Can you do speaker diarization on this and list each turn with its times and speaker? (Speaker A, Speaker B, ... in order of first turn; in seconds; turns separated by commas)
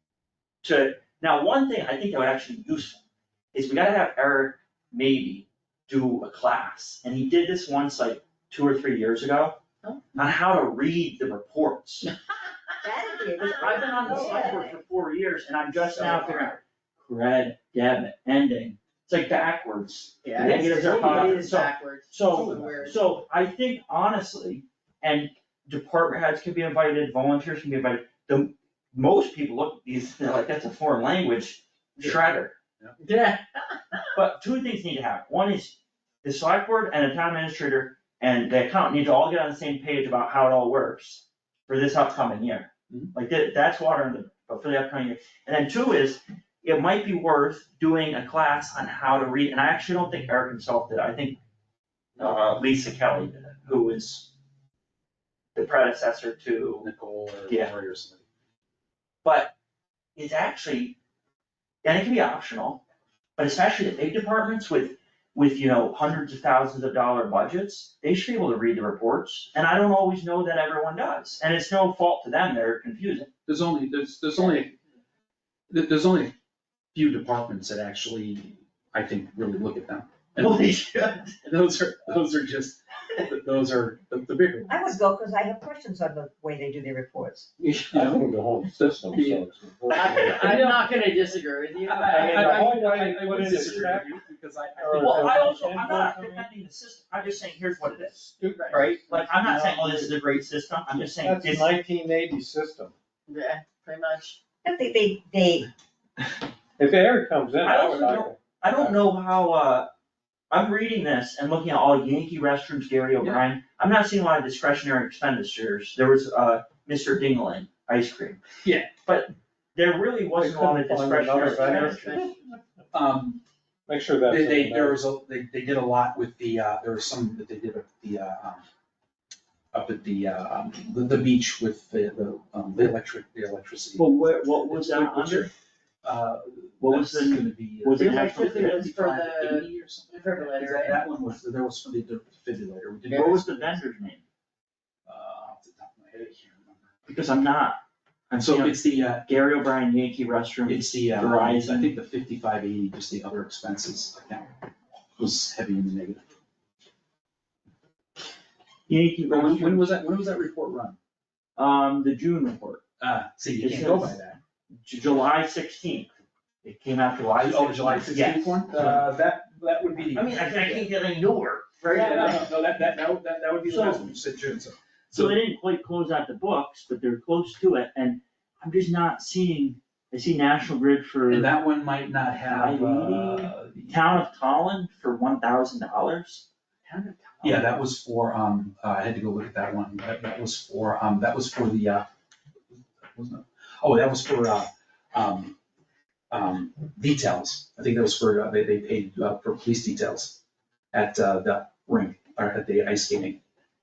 Speaker A: 0.6-3.0, Speaker A: 3.5-9.6, Speaker A: 10.1-12.1, Speaker B: 12.8-14.8, Speaker A: 13.5-32.5, Speaker C: 13.5-14.4, Speaker D: 15.8-16.5, Speaker C: 20.2-22.9, Speaker D: 20.4-21.5, Speaker D: 22.3-22.9, Speaker C: 33.0-34.0, Speaker A: 34.1-51.4, Speaker A: 52.2-54.3, Speaker A: 55.5-56.9, Speaker D: 56.8-58.2, Speaker A: 59.2-59.5, Speaker A: 60.1-61.0, Speaker A: 61.8-62.8, Speaker A: 63.4-73.3, Speaker D: 73.5-74.7, Speaker D: 75.7-76.3, Speaker D: 76.9-80.7, Speaker A: 80.4-81.4, Speaker D: 81.4-85.0, Speaker B: 84.7-87.5, Speaker D: 87.6-91.0, Speaker E: 87.9-90.7, Speaker C: 89.9-92.8, Speaker D: 91.8-95.5, Speaker E: 92.2-94.2, Speaker E: 94.8-96.5, Speaker A: 94.9-98.2, Speaker E: 97.9-100.0, Speaker C: 98.5-98.8, Speaker A: 98.7-101.7, Speaker D: 99.4-99.9, Speaker E: 101.1-102.9, Speaker C: 103.3-104.4, Speaker B: 104.6-105.7, Speaker E: 106.8-109.0, Speaker A: 107.6-109.9, Speaker A: 110.5-118.4, Speaker D: 118.6-118.9, Speaker A: 119.0-122.2, Speaker E: 120.4-122.4, Speaker C: 121.3-122.5, Speaker D: 122.9-123.4, Speaker E: 123.9-125.0, Speaker D: 124.2-128.6, Speaker D: 129.7-135.5, Speaker A: 133.9-135.5, Speaker D: 136.0-143.6, Speaker A: 136.8-138.9, Speaker C: 137.9-141.1, Speaker A: 143.1-144.2, Speaker C: 143.1-143.8, Speaker D: 145.1-146.9, Speaker A: 147.1-147.8, Speaker A: 148.3-151.9, Speaker D: 148.4-149.3, Speaker D: 150.6-154.5, Speaker D: 155.2-156.2, Speaker A: 158.9-160.0, Speaker D: 159.3-161.0, Speaker A: 161.6-162.8, Speaker D: 163.0-164.4, Speaker A: 163.6-164.2, Speaker A: 164.8-166.1, Speaker A: 166.6-169.0, Speaker D: 167.3-170.9, Speaker A: 170.1-172.4, Speaker D: 171.9-175.4, Speaker A: 173.6-174.1, Speaker A: 175.1-181.5, Speaker D: 181.2-184.2, Speaker A: 182.4-187.6, Speaker D: 187.4-192.1, Speaker D: 192.7-195.5, Speaker D: 196.3-200.4, Speaker D: 200.9-203.4